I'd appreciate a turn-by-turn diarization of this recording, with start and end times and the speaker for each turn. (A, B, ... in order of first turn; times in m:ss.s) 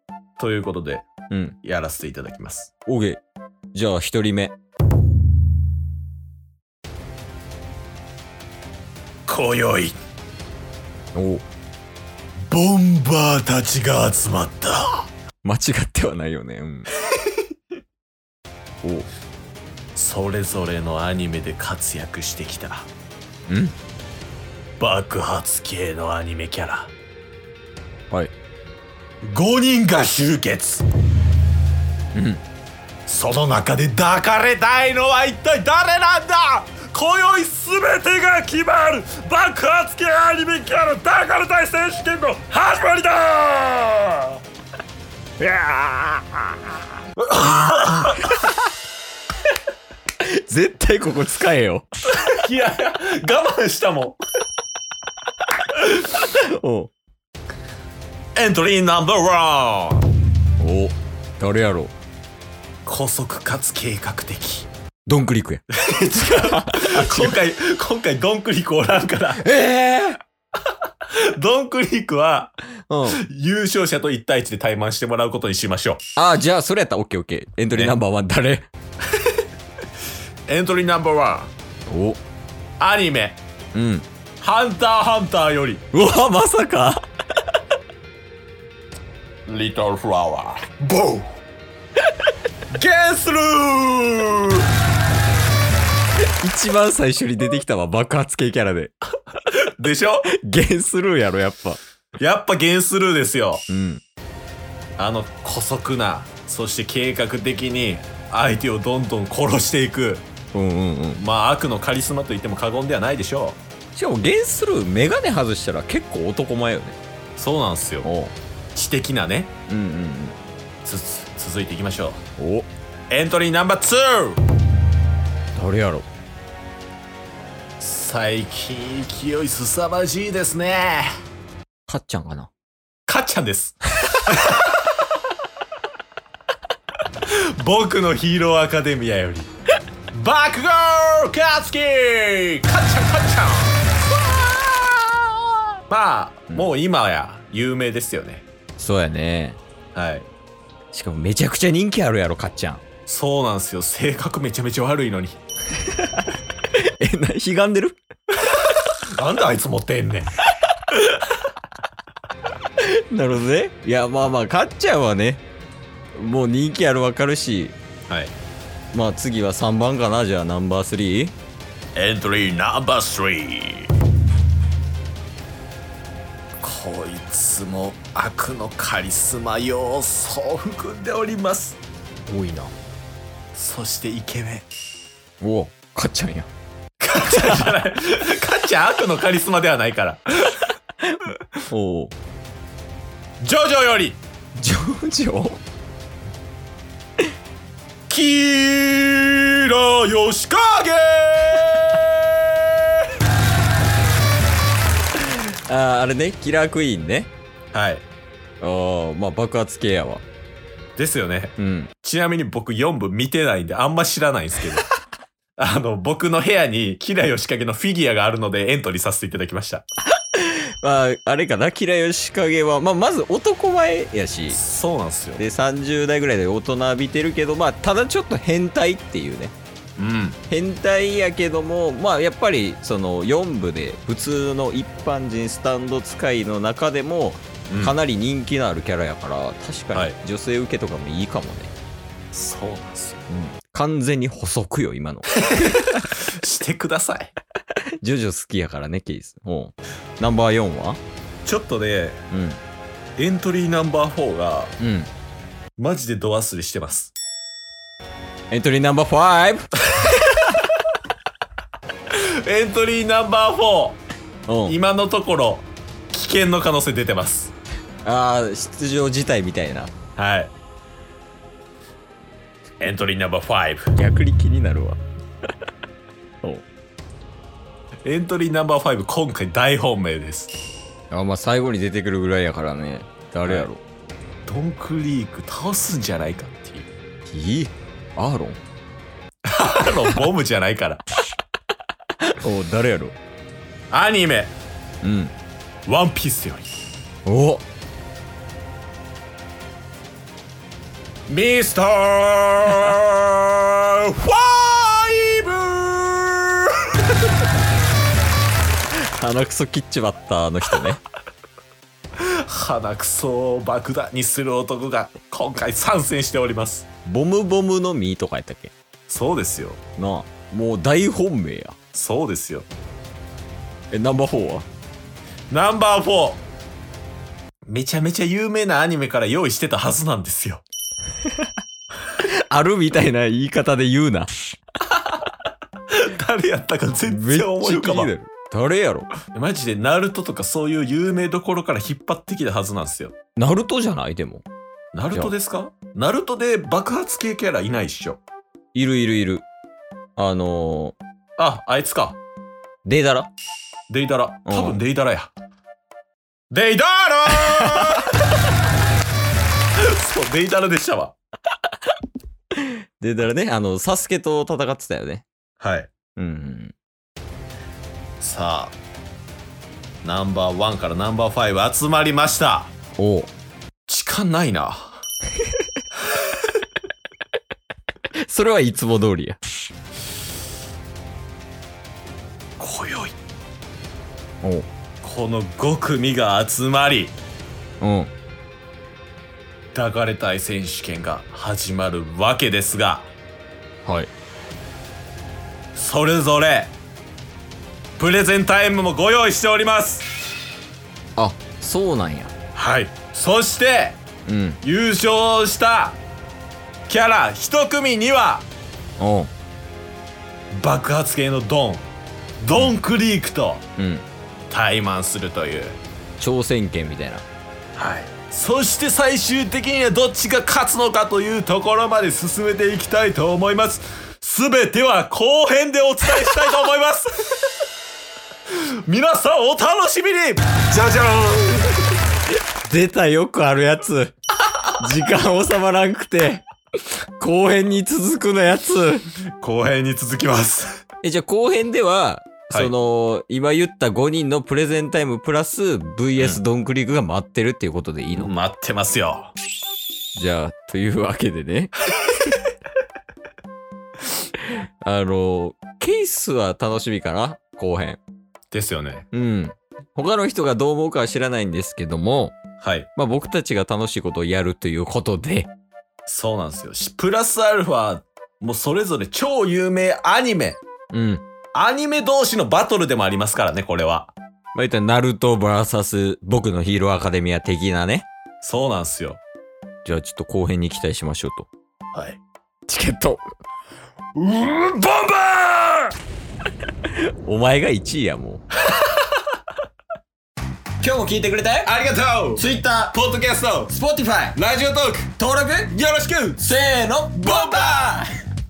0:00.4-0:01.1 A
0:01.3-0:01.6 B
0:01.6-0:02.7 A
0:02.8-0:03.2 B
0:03.7-0:04.5 B
0:09.3-0:10.0 A
0:11.1-0:11.4 B
0:12.4-0:15.1 A
0:15.4-0:16.9 B
0:18.8-0:19.1 B
0:19.9-0:22.9 A
0:23.5-0:23.7 B
0:24.8-0:26.9 A
0:29.2-0:30.8 A
0:32.1-0:32.4 B
0:33.0-0:44.4 A
0:45.4-0:46.7 B
0:47.2-0:48.5 A
0:50.2-0:51.8 B
0:52.1-0:54.2 A
0:56.0-0:56.9 B
0:58.3-1:00.0 A
1:00.6-1:01.9 B
1:02.8-1:04.7 A
1:05.0-1:05.6 B
1:05.8-1:09.4 A
1:06.2-1:07.4 B
1:09.4-1:10.2 B
1:11.2-1:12.5 A
1:12.9-1:13.2 B
1:13.1-1:16.0 A
1:16.2-1:18.7 B
1:20.5-1:21.5 A
1:21.9-1:22.2 B
1:22.8-1:23.4 A
1:23.7-1:24.0 B
1:24.4-1:25.8 A
1:25.9-1:27.0 B
1:29.5-1:31.4 A
1:32.7-1:34.7 A
1:36.4-1:38.9 B
1:39.5-1:40.3 A
1:40.3-1:41.8 B
1:42.2-1:43.6 A
1:43.7-1:44.0 B
1:45.0-1:50.2 A
1:50.5-1:51.2 B
1:51.2-1:53.6 A
1:53.9-1:57.0 B
1:57.4-1:58.1 A
1:58.0-1:58.3 B
1:58.7-1:59.5 A
1:59.7-2:00.4 B
2:00.8-2:02.2 A
2:02.4-2:02.7 B
2:03.1-2:04.4 A
2:05.5-2:06.0 B
2:07.8-2:11.1 A
2:11.9-2:12.5 B
2:13.1-2:14.8 A
2:17.3-2:19.5 A
2:20.1-2:25.0 A
2:25.9-2:28.5 A
2:28.8-2:29.6 B
2:29.9-2:30.3 A
2:30.9-2:32.8 B
2:33.1-2:35.4 A
2:35.8-2:38.0 B
2:39.2-2:40.3 A
2:42.8-2:45.4 B
2:46.1-2:47.8 B
2:48.1-2:48.3 A
2:48.9-2:51.3 B
2:51.9-2:53.9 A
2:56.6-3:01.8 A
3:02.3-3:02.7 B
3:03.5-3:04.6 A
3:05.4-3:06.5 B
3:07.0-3:10.6 A
3:07.3-3:07.7 B
3:11.7-3:12.1 B
3:13.4-3:14.2 A
3:14.6-3:15.6 B
3:18.1-3:22.8 A
3:25.3-3:27.3 B
3:27.7-3:28.0 A
3:28.6-3:30.2 B
3:31.0-3:34.8 A
3:31.6-3:31.9 B
3:35.6-3:39.8 A
3:40.3-3:44.6 B
3:44.5-3:45.4 A
3:45.4-3:49.5 B
3:50.0-3:50.4 A
3:50.5-4:01.7 B
3:57.7-3:57.9 A
4:02.3-4:03.2 A
4:03.3-4:06.0 B
4:05.5-4:07.3 A
4:08.0-4:11.0 B
4:11.4-4:12.2 A
4:12.3-4:12.6 B
4:13.2-4:14.8 A
4:14.8-4:15.1 B
4:15.8-4:17.1 A
4:18.5-4:19.7 B
4:22.1-4:24.0 A
4:24.5-4:24.8 B
4:24.7-4:27.5 A
4:28.0-4:29.9 B
4:30.2-4:30.5 A
4:32.8-4:33.9 A
4:33.9-4:35.0 B
4:38.0-4:40.5 A
4:41.1-4:43.8 B
4:44.5-4:46.9 A
4:47.3-4:48.6 B
4:49.5-4:51.0 A
4:52.2-4:53.2 B
4:53.9-4:54.6 A
4:55.0-4:55.3 B
4:55.9-4:56.7 A
4:57.2-4:57.6 B
5:01.3-5:07.2 A
5:08.9-5:11.0 B
5:12.2-5:16.8 A
5:17.0-5:18.7 B
5:19.1-5:19.8 A
5:20.0-5:21.8 B
5:21.9-5:22.7 A
5:23.9-5:24.7 B
5:25.5-5:26.4 A
5:27.6-5:30.6 A
5:32.2-5:34.3 B
5:35.9-5:38.1 A
5:37.1-5:39.1 B
5:39.3-5:43.1 A
5:43.4-5:44.4 B
5:44.9-5:48.2 A
5:48.7-5:49.4 B
5:50.2-5:51.0 B
5:51.4-5:52.2 A
5:52.8-5:53.3 B
5:53.9-5:55.3 A
5:54.5-5:54.8 B
5:56.5-5:58.2 A
5:59.8-6:01.2 A
6:02.6-6:05.2 B
6:05.6-6:05.9 A
6:06.2-6:06.7 B
6:08.2-6:08.8 A
6:10.0-6:12.7 A
6:13.0-6:13.3 B
6:13.9-6:15.0 A
6:18.2-6:19.4 B
6:22.6-6:23.1 A
6:24.4-6:24.7 B
6:25.0-6:27.2 A
6:27.8-6:28.1 B
6:29.7-6:33.1 A
6:33.8-6:34.1 B
6:35.7-6:36.7 A
6:38.0-6:40.1 A
6:41.2-6:42.3 B
6:42.5-6:44.0 A
6:44.2-6:44.6 B
6:44.6-6:46.0 A
6:46.9-6:48.5 A
6:49.0-6:49.3 B
6:50.5-6:51.9 A
6:52.4-6:53.6 A
6:53.8-6:54.0 B
6:54.5-6:55.8 A
6:56.2-6:57.2 B
6:57.7-7:07.5 A
7:08.5-7:12.0 A
7:12.6-7:14.1 B
7:14.8-7:16.4 B
7:17.2-7:19.0 B
7:19.4-7:20.8 A
7:21.0-7:28.3 B
7:28.1-7:29.3 A
7:30.1-7:31.7 B
7:34.4-7:38.0 B
7:38.5-7:39.1 A
7:39.1-7:42.4 B
7:42.6-7:42.9 A
7:43.0-7:45.5 B
7:46.0-7:50.6 A
7:50.9-7:51.2 B
7:51.5-7:54.1 A
7:54.5-7:58.0 B
7:58.4-7:59.2 A
7:59.8-8:01.5 B
8:01.9-8:02.2 A
8:02.7-8:03.2 B
8:04.2-8:05.1 A
8:05.3-8:05.6 B
8:07.2-8:08.4 B
8:10.8-8:11.6 B
8:11.6-8:15.1 A
8:12.4-8:13.0 B
8:13.8-8:14.2 B
8:15.2-8:18.0 B
8:17.1-8:17.8 A